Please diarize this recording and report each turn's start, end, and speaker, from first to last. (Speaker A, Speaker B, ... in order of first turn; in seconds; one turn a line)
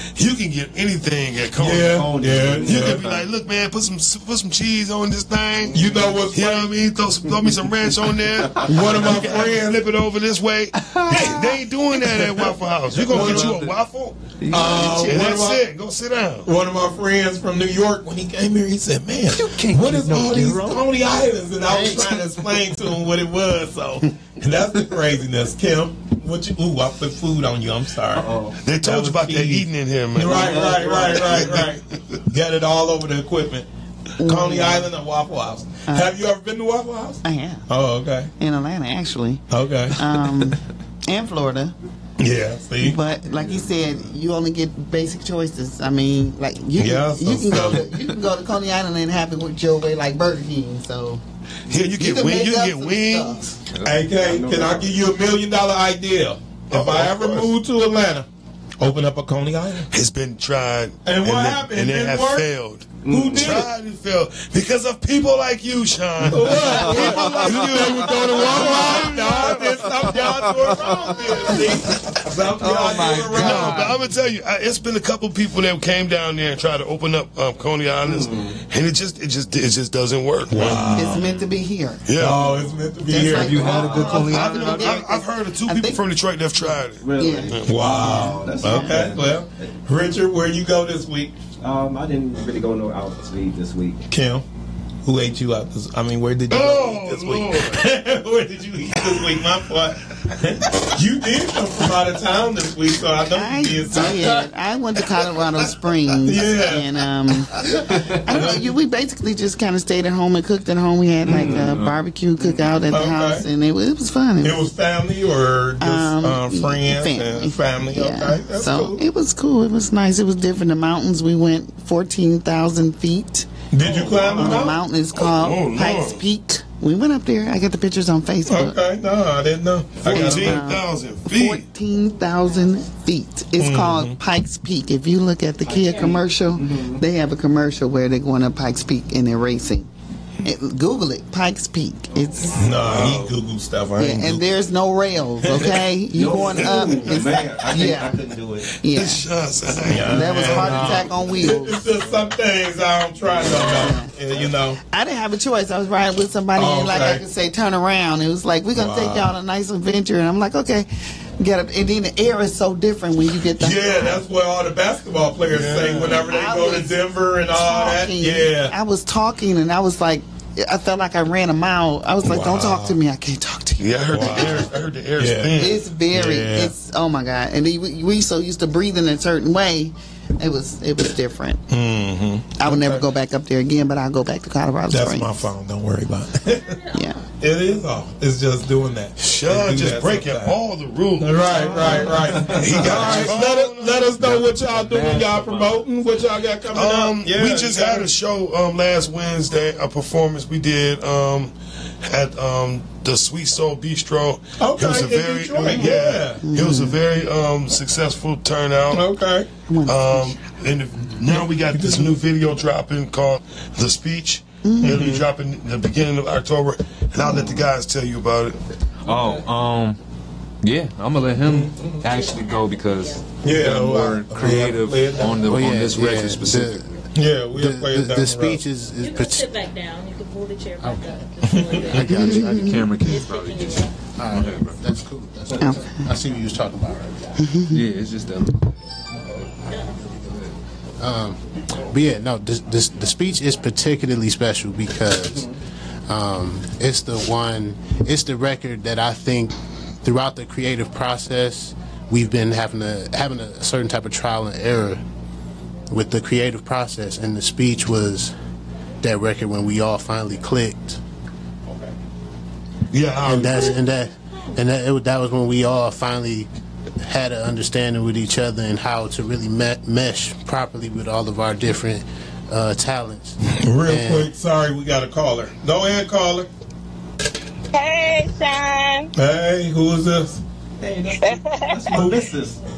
Speaker A: 0.1-2.1
Speaker B: 1.6-3.0
Speaker C: 1.8-3.2
Speaker A: 2.6-16.5
Speaker B: 5.7-6.7
Speaker C: 5.7-6.0
Speaker B: 8.6-9.8
Speaker D: 10.8-11.5
Speaker B: 11.1-11.6
Speaker D: 12.9-13.7
Speaker B: 13.0-13.6
Speaker D: 14.4-15.2
Speaker B: 14.5-15.6
Speaker B: 16.4-28.3
Speaker D: 19.3-20.8
Speaker D: 21.7-22.2
Speaker C: 28.1-28.6
Speaker A: 28.6-31.8
Speaker B: 28.8-33.7
Speaker C: 30.2-31.6
Speaker E: 34.2-34.9
Speaker B: 34.2-38.3
Speaker E: 35.9-36.1
Speaker E: 37.2-37.6
Speaker E: 38.4-41.7
Speaker B: 39.5-40.4
Speaker B: 42.2-43.0
Speaker E: 42.8-51.2
Speaker B: 46.8-47.9
Speaker A: 51.7-53.6
Speaker E: 52.0-53.4
Speaker D: 53.7-54.2
Speaker B: 53.8-58.2
Speaker C: 54.2-55.0
Speaker A: 56.7-57.5
Speaker B: 58.8-59.9
Speaker A: 59.9-69.8
Speaker B: 61.0-62.5
Speaker C: 63.0-63.6
Speaker B: 63.1-63.7
Speaker B: 66.3-73.9
Speaker C: 66.5-71.5
Speaker D: 72.6-74.0
Speaker C: 72.7-73.3
Speaker A: 73.1-81.0
Speaker C: 78.0-78.6
Speaker B: 80.5-81.3
Speaker D: 80.6-81.1
Speaker E: 80.9-82.0
Speaker A: 82.0-82.4
Speaker B: 82.2-83.7
Speaker E: 83.1-86.0
Speaker D: 83.2-85.0
Speaker C: 83.4-84.4
Speaker A: 84.2-87.8
Speaker C: 87.0-89.8
Speaker E: 87.2-89.1
Speaker B: 87.7-91.3
Speaker C: 91.6-94.0
Speaker B: 94.1-94.4
Speaker B: 95.0-104.5
Speaker A: 96.5-97.8
Speaker E: 103.3-114.7
Speaker B: 106.2-106.9
Speaker B: 108.3-108.6
Speaker C: 111.2-111.8
Speaker D: 111.5-111.9
Speaker B: 112.9-113.5
Speaker B: 114.4-119.0
Speaker E: 115.8-123.5
Speaker B: 123.7-124.8
Speaker C: 123.8-124.7
Speaker E: 124.3-128.8
Speaker A: 125.1-126.2
Speaker B: 128.4-130.6
Speaker A: 130.0-131.6
Speaker E: 130.1-139.9
Speaker B: 133.6-134.1
Speaker C: 135.6-137.0
Speaker E: 140.4-142.8
Speaker C: 142.1-143.2
Speaker B: 142.5-144.4
Speaker A: 142.8-143.3
Speaker E: 144.0-148.2
Speaker B: 145.4-145.8
Speaker C: 146.1-148.7
Speaker A: 146.5-147.2
Speaker E: 148.8-149.2
Speaker A: 148.9-151.1
Speaker B: 149.9-154.8
Speaker E: 149.9-151.8
Speaker E: 153.5-154.1
Speaker E: 154.9-160.9
Speaker B: 156.6-157.2
Speaker B: 158.7-159.3
Speaker E: 161.4-164.2
Speaker B: 163.6-168.7
Speaker A: 165.5-166.3
Speaker E: 166.0-174.7
Speaker B: 172.2-173.0
Speaker A: 173.8-175.8
Speaker B: 174.1-176.7
Speaker E: 175.6-181.6
Speaker B: 181.7-183.0
Speaker E: 182.6-185.5
Speaker B: 184.9-186.7
Speaker F: 186.5-187.2
Speaker E: 186.9-187.2
Speaker B: 187.4-190.6
Speaker A: 189.2-194.4
Speaker B: 191.2-198.1
Speaker C: 191.5-193.2
Speaker D: 194.2-195.6
Speaker C: 195.3-195.7
Speaker A: 196.7-209.1
Speaker B: 204.6-206.4
Speaker E: 205.8-207.0
Speaker B: 208.9-209.5
Speaker E: 209.7-210.3
Speaker A: 209.8-218.6
Speaker B: 211.3-212.2
Speaker E: 214.6-215.0
Speaker B: 214.8-215.2
Speaker C: 217.3-217.7
Speaker D: 219.0-220.0
Speaker C: 219.1-219.4
Speaker D: 220.6-227.0
Speaker C: 221.8-222.0
Speaker F: 222.0-223.2
Speaker B: 223.4-225.4
Speaker G: 225.4-226.9
Speaker B: 227.1-228.6
Speaker G: 227.5-229.5
Speaker F: 229.0-233.9
Speaker G: 230.8-233.1
Speaker B: 231.4-231.8
Speaker D: 231.9-234.8
Speaker E: 232.1-232.8
Speaker G: 234.2-237.4
Speaker E: 235.6-236.1
Speaker E: 237.4-237.8
Speaker D: 237.7-238.6
Speaker F: 239.7-240.1
Speaker D: 240.1-240.5
Speaker G: 241.0-245.5
Speaker G: 246.1-255.0
Speaker G: 255.9-258.3
Speaker G: 259.0-261.0
Speaker A: 262.9-263.8
Speaker G: 263.2-266.5
Speaker G: 267.0-274.3
Speaker B: 273.6-276.5
Speaker H: 277.7-279.1
Speaker B: 279.1-280.4
Speaker C: 280.8-282.6
Speaker H: 281.2-281.9
Speaker B: 281.9-282.3